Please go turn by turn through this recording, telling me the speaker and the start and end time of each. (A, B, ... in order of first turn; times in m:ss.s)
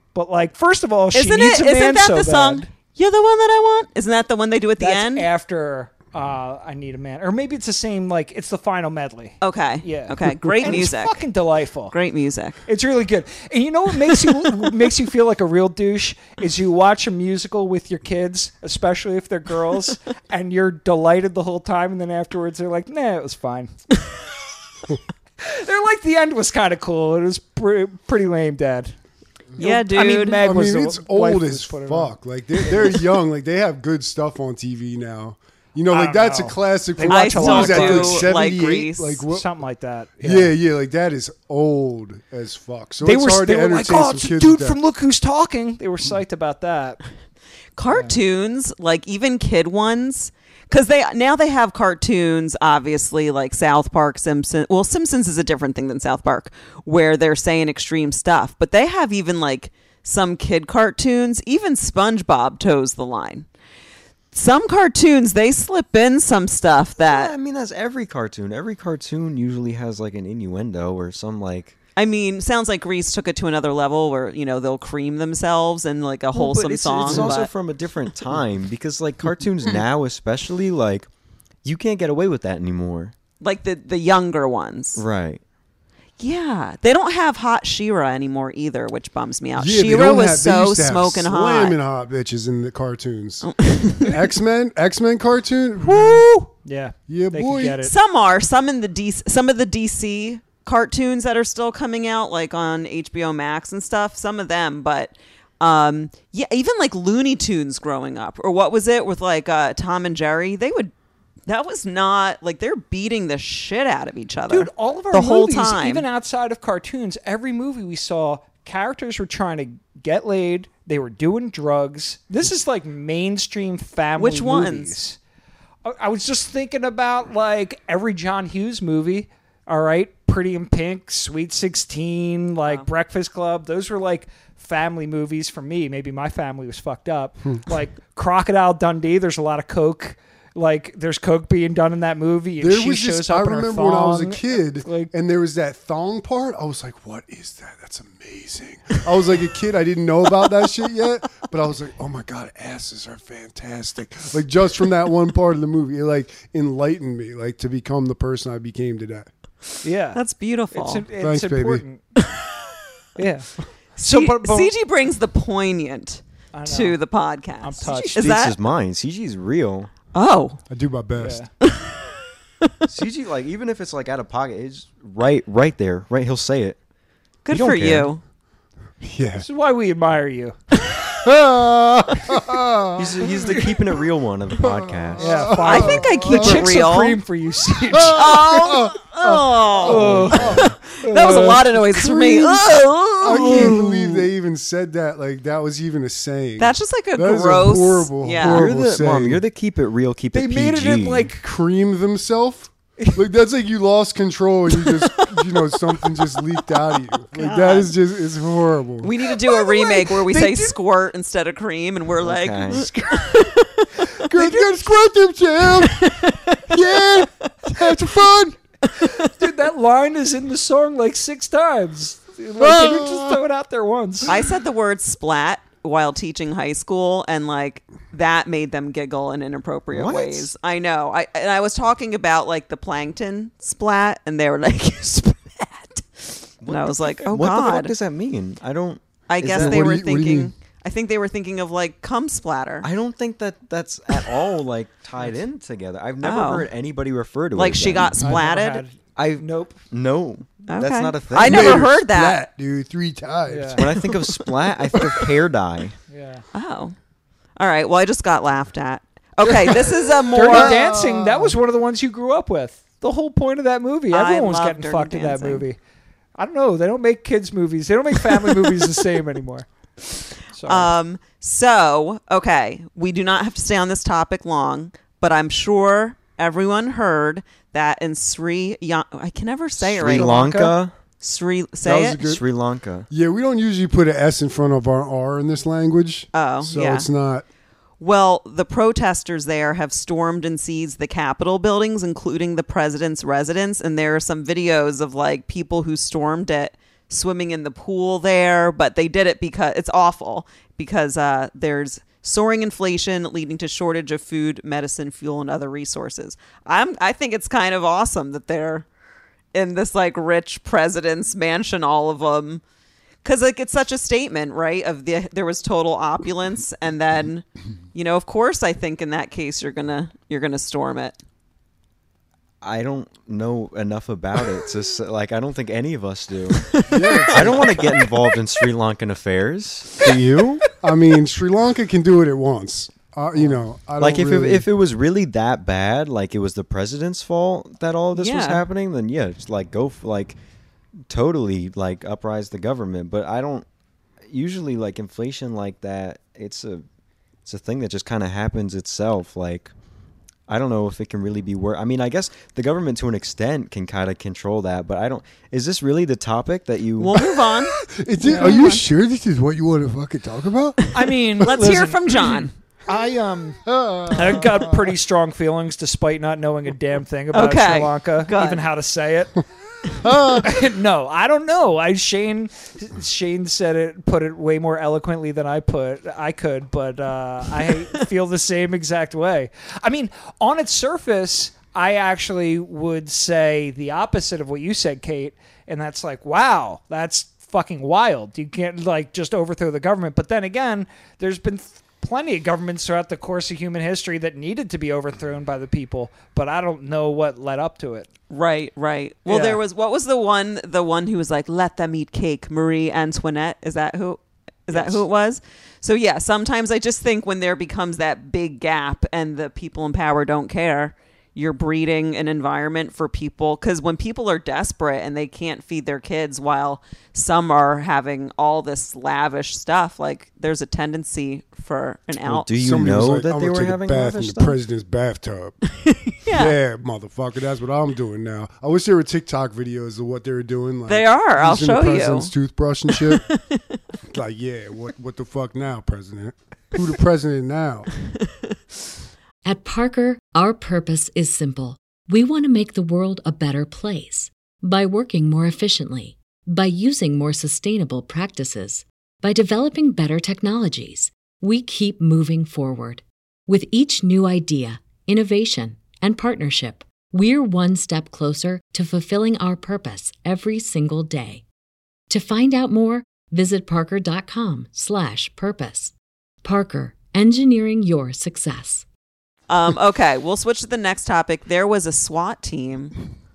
0:00.1-0:02.7 A
0:01.1-0:05.3 B
0:04.8-0:11.9 A
0:09.4-0:11.2 B
0:11.9-0:12.6 B
0:12.6-0:23.8 A
0:25.4-0:29.0 A
0:29.6-0:33.0 A
0:29.6-0:30.4 B
0:30.4-0:39.5 C
0:35.9-0:38.3 A
0:37.0-0:39.2 B
0:39.3-0:40.5 A
0:40.2-0:44.8 C
0:43.0-0:47.0 A
0:47.8-1:03.4 B
1:04.3-1:07.3 B
1:07.0-1:11.7 D
1:12.0-1:17.5 B
1:16.3-1:21.1 D
1:21.6-1:23.1 D
1:23.4-1:25.0 B
1:25.0-1:25.4 D
1:26.2-1:31.8 B
1:29.6-1:36.5 C
1:33.4-1:34.2 B
1:35.8-1:37.9 A
1:37.1-1:37.8 C
1:37.8-1:50.9 B
1:51.5-1:56.0 B
1:54.5-2:05.2 A
2:04.2-2:05.0 B
2:05.8-2:25.1 A
2:22.6-2:39.3 C
2:39.8-2:40.2 A
2:40.1-2:41.0 B
2:40.7-2:42.0 A
2:41.2-2:41.8 C
2:42.2-2:42.5 B
2:43.2-2:44.7 A
2:44.0-2:48.6 B
2:46.5-2:47.0 A
2:47.6-2:48.3 A
2:47.9-2:49.9 D
2:50.1-2:50.6 B
2:50.7-2:51.4 C
2:51.2-2:51.5 A
2:51.6-2:52.8 B
2:52.9-2:56.8 D
2:57.4-2:58.2 B
2:57.5-2:58.1 D
2:59.0-2:59.4 C
2:59.4-3:00.5 A
3:01.1-3:03.3 C
3:02.9-3:05.6 D
3:04.6-3:06.6 C
3:05.2-3:08.4 A
3:05.6-3:07.2 B
3:07.9-3:10.8 C
3:08.1-3:13.9 B
3:09.8-3:11.6 A
3:11.3-3:19.4 C
3:13.5-3:13.8 D
3:16.6-3:18.7 B
3:18.4-3:21.3 D
3:20.3-3:21.4 A
3:21.4-3:29.1 C
3:27.3-3:27.9 B
3:29.0-3:34.1 B
3:29.2-3:30.8 A
3:32.2-3:32.8 D
3:32.7-3:33.5 C
3:34.2-3:38.6 C
3:34.4-3:34.6 A
3:35.8-3:37.5 B
3:39.0-3:39.3 B
3:39.0-3:44.3 A
3:42.6-3:43.4 C
3:44.2-3:57.9 B
3:49.9-3:50.5 D
3:56.6-4:00.0 D
3:59.3-4:02.9 B
3:59.5-4:00.5 C
4:02.8-4:08.2 D
4:06.2-4:06.7 B
4:07.5-4:08.8 B
4:08.2-4:09.8 A
4:09.2-4:11.9 D
4:10.7-4:12.4 B
4:11.4-4:14.1 C
4:13.5-4:13.8 A
4:13.8-4:16.0 D
4:16.1-4:16.4 A
4:16.5-4:16.9 B
4:17.6-4:20.8 B
4:19.6-4:21.5 C
4:20.3-4:25.8 A
4:24.1-4:25.6 B
4:26.4-4:29.7 A
4:30.5-4:30.9 A
4:30.6-4:42.2 B
4:39.8-4:40.9 D
4:40.1-4:40.7 A
4:41.8-4:42.4 C
4:42.1-4:43.1 D
4:43.1-4:47.4 C
4:46.3-4:47.1 B
4:48.0-5:08.8 B
5:09.5-5:12.6 B
5:13.2-5:21.2 B
5:22.6-5:30.2 D
5:26.6-5:28.7 B
5:26.9-5:27.9 C
5:30.0-5:34.6 C
5:34.0-5:40.4 D
5:38.1-5:38.6 B
5:41.1-5:43.6 D
5:44.2-5:46.8 D
5:47.4-5:49.7 D
5:50.5-5:57.2 D
5:57.0-5:58.8 B
5:57.2-6:00.9 C
5:58.2-5:58.7 A
6:00.9-6:02.5 B
6:00.9-6:09.4 A
6:03.6-6:04.9 C
6:07.3-6:08.6 B
6:10.0-6:10.5 C
6:10.4-6:38.1 A
6:38.3-7:02.5 B
6:39.2-6:39.6 A
6:44.7-6:45.0 A
7:02.2-7:04.6 D
7:02.6-7:05.6 C
7:05.9-7:06.6 B
7:06.3-7:13.3 C
7:10.9-7:12.3 B
7:12.9-7:13.6 B
7:14.1-7:17.9 C
7:19.4-7:41.4 E
7:42.1-7:48.8 E
7:49.5-7:53.0 B